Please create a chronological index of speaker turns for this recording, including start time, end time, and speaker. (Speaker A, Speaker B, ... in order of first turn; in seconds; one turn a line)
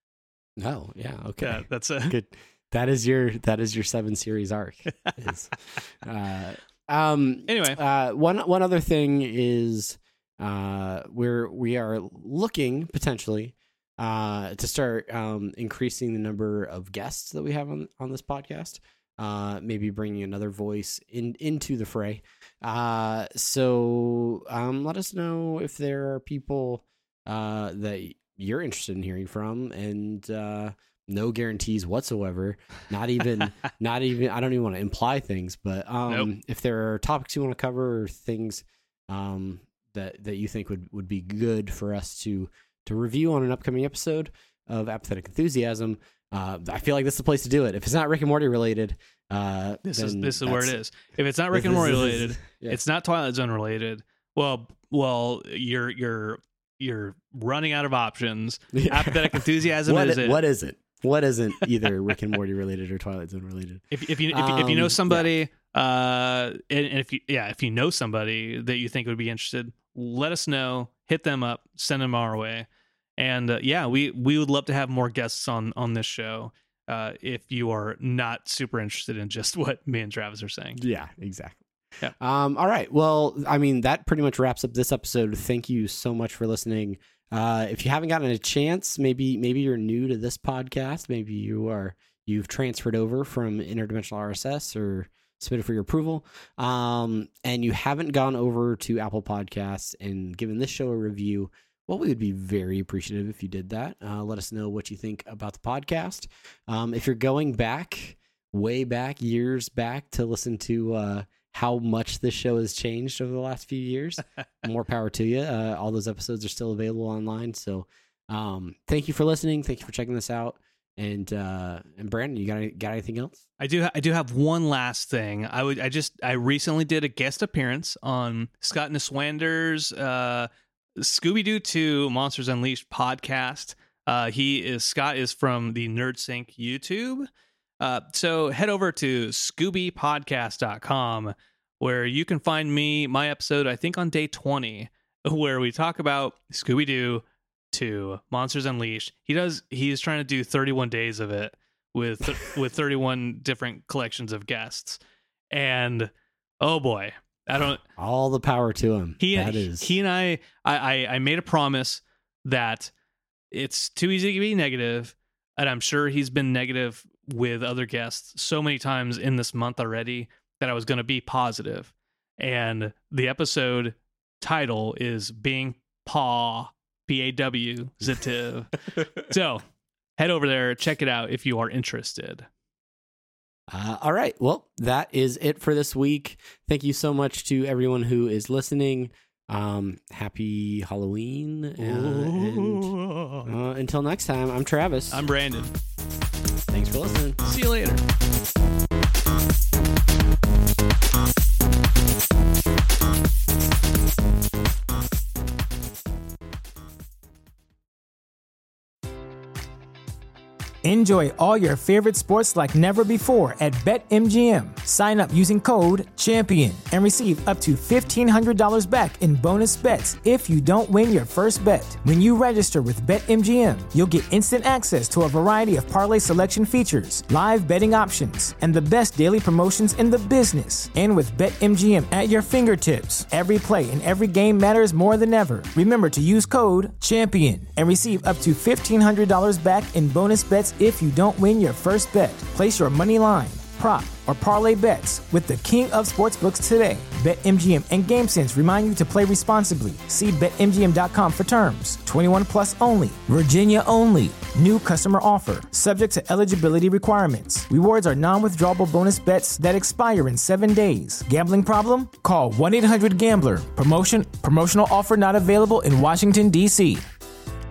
Speaker A: 0.6-50.8
Speaker B: 1.4-2.1
Speaker B: 7.5-7.8
Speaker B: 49.8-60.4
Speaker A: 51.5-52.8
Speaker A: 58.7-65.3
Speaker B: 63.9-72.7
Speaker B: 73.2-80.8
Speaker A: 80.8-81.6
Speaker A: 82.2-123.4
Speaker B: 123.6-137.3
Speaker B: 137.8-155.0
Speaker B: 155.5-157.8
Speaker A: 158.0-159.9
Speaker B: 159.2-162.9
Speaker B: 163.5-179.6
Speaker B: 180.2-182.5
Speaker A: 183.7-195.2
Speaker B: 191.8-193.5
Speaker B: 195.1-195.7
Speaker A: 196.7-197.4
Speaker B: 197.4-198.0
Speaker C: 210.8-267.1